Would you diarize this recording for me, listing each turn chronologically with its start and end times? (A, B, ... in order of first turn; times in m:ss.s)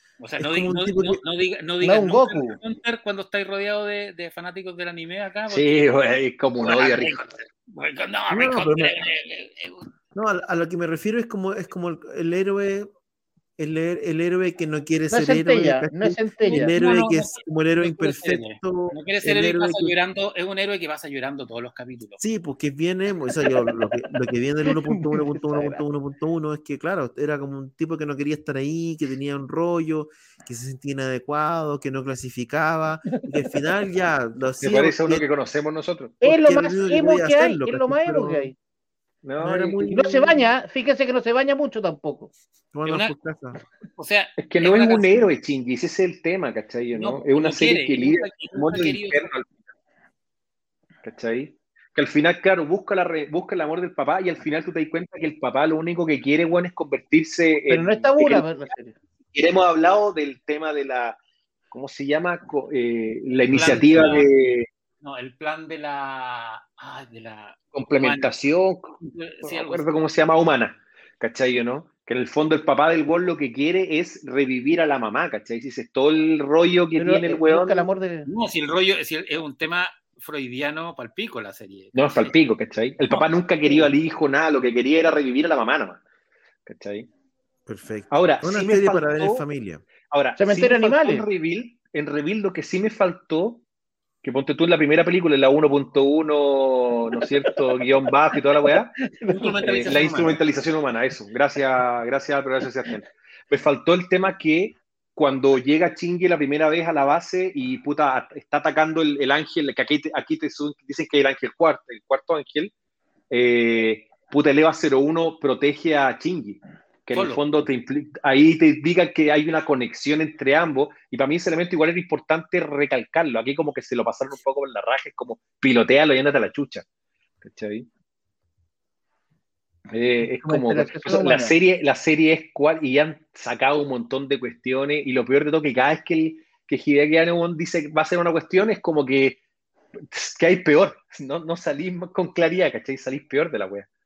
0:00.2-0:05.9 A
0:00.4-0:01.2 B
0:01.8-0:02.6 C
0:05.5-0:07.2 D
0:06.6-0:09.9 A
0:08.3-0:08.9 B
0:10.1-0:12.9 B
0:13.6-0:20.0 B
0:15.1-0:16.7 C
0:16.4-0:22.2 A
0:22.2-0:35.2 B
0:24.7-0:25.8 C
0:34.6-0:36.2 D
0:36.2-0:38.5 B
0:36.2-0:38.6 C
0:39.2-0:40.4 D
0:39.4-0:40.4 B
0:39.9-0:42.3 C
0:42.7-0:43.6 B
0:42.8-0:43.1 A
0:44.0-0:45.3 A
0:44.4-0:49.5 D
0:46.9-0:49.2 A
0:51.0-0:58.5 D
0:57.7-0:58.9 C
0:59.3-1:01.2 D
1:01.7-1:04.7 D
1:03.5-1:04.2 B
1:03.5-1:04.3 A
1:05.0-1:08.3 A
1:07.7-1:17.9 D
1:09.0-1:09.9 A
1:17.0-1:18.3 C
1:18.3-1:22.3 A
1:21.9-1:26.0 D
1:23.1-1:23.9 A
1:26.6-1:27.1 D
1:27.6-1:29.8 B
1:28.1-1:29.4 D
1:30.1-1:33.6 D
1:30.4-1:31.2 C
1:34.2-1:38.9 D
1:38.5-1:40.1 C
1:39.3-1:40.4 A
1:39.6-1:52.7 D
1:53.3-2:06.8 D
1:57.1-1:57.4 A
2:07.4-2:07.9 D
2:09.9-2:19.4 D
2:10.2-2:11.5 C
2:20.1-2:23.9 D